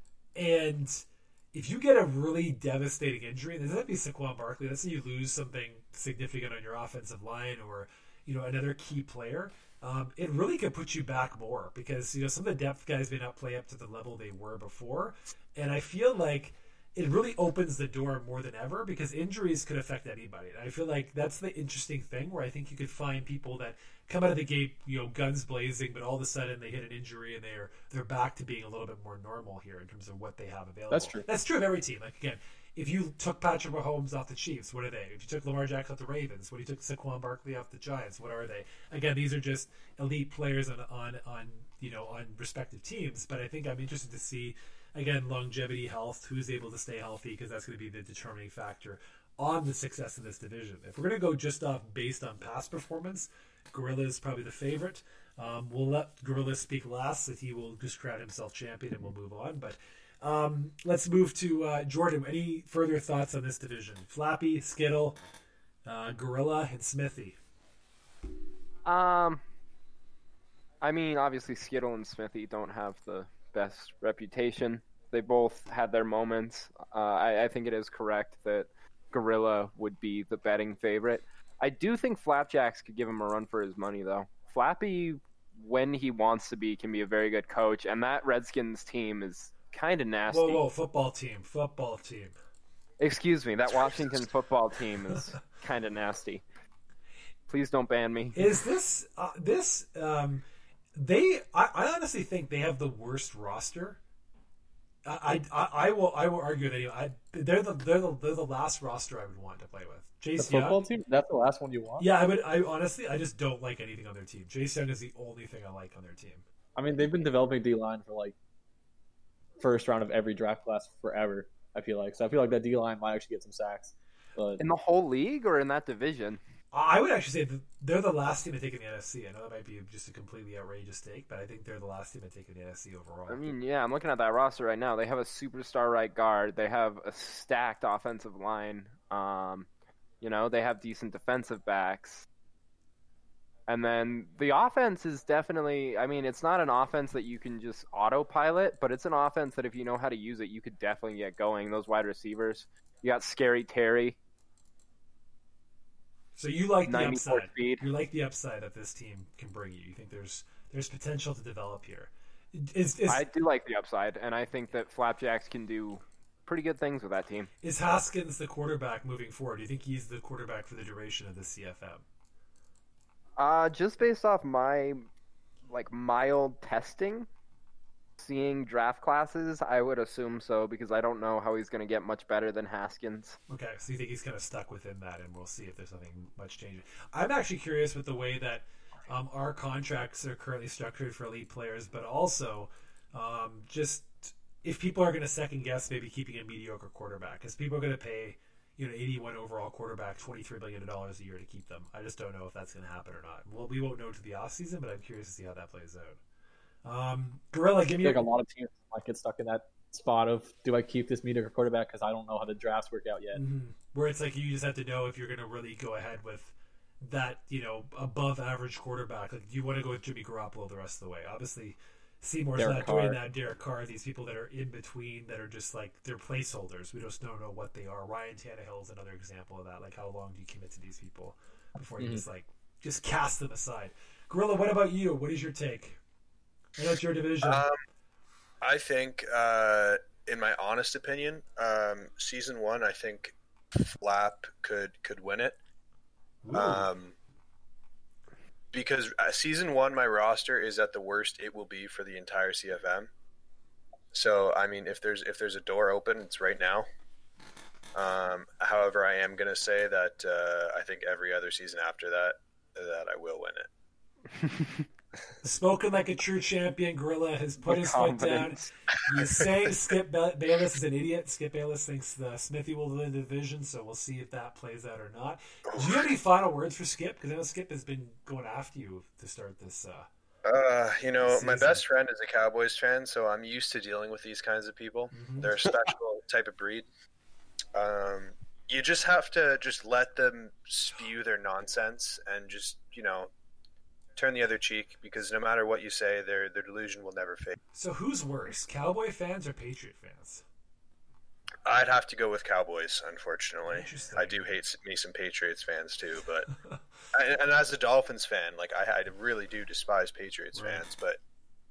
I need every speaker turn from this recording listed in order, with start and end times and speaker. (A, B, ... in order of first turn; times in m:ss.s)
0:00.4-1:05.2 A
0:30.9-0:31.3 B
1:05.9-1:07.4 A
1:08.8-1:09.4 C
1:10.8-1:30.6 C
1:30.3-1:32.3 A
1:33.0-1:36.4 C
1:37.5-1:38.5 C
1:38.4-1:40.4 A
1:41.0-1:44.0 A
1:45.1-1:50.8 A
1:50.4-1:52.1 B
1:52.0-1:56.4 A
1:56.8-1:58.4 B
1:59.6-2:04.6 B
2:04.6-2:06.4 C
2:06.7-2:13.4 A
2:13.3-2:19.7 C
2:20.2-2:22.3 C
2:23.7-2:34.2 C
2:36.4-2:43.2 A
2:36.9-2:37.8 C
2:43.1-2:47.5 C
2:47.6-2:52.0 A
2:53.4-2:55.0 C
2:55.7-2:57.3 C
2:58.2-3:03.4 C
3:03.5-3:26.2 A
3:26.8-3:28.2 A
3:28.0-3:33.4 B
3:33.3-3:56.0 A
3:42.6-3:43.2 B
3:56.8-3:57.7 A
3:57.4-3:57.8 D
3:58.6-4:05.6 D
4:06.4-4:06.9 A
4:06.5-4:07.2 D
4:08.7-4:13.1 D
4:14.1-4:16.9 D
4:18.0-4:23.7 D
4:24.3-4:24.8 C
4:25.4-4:40.1 A
4:27.6-4:28.7 C
4:29.1-4:29.4 D
4:35.7-4:36.1 D
4:40.5-4:46.9 D
4:41.2-4:41.8 A
4:45.1-4:45.5 A
4:47.7-4:53.3 D
4:54.2-4:57.6 D
4:57.7-5:00.4 A
5:01.7-5:06.5 D
5:03.7-5:04.5 A
5:07.1-5:11.2 D
5:10.5-5:10.8 A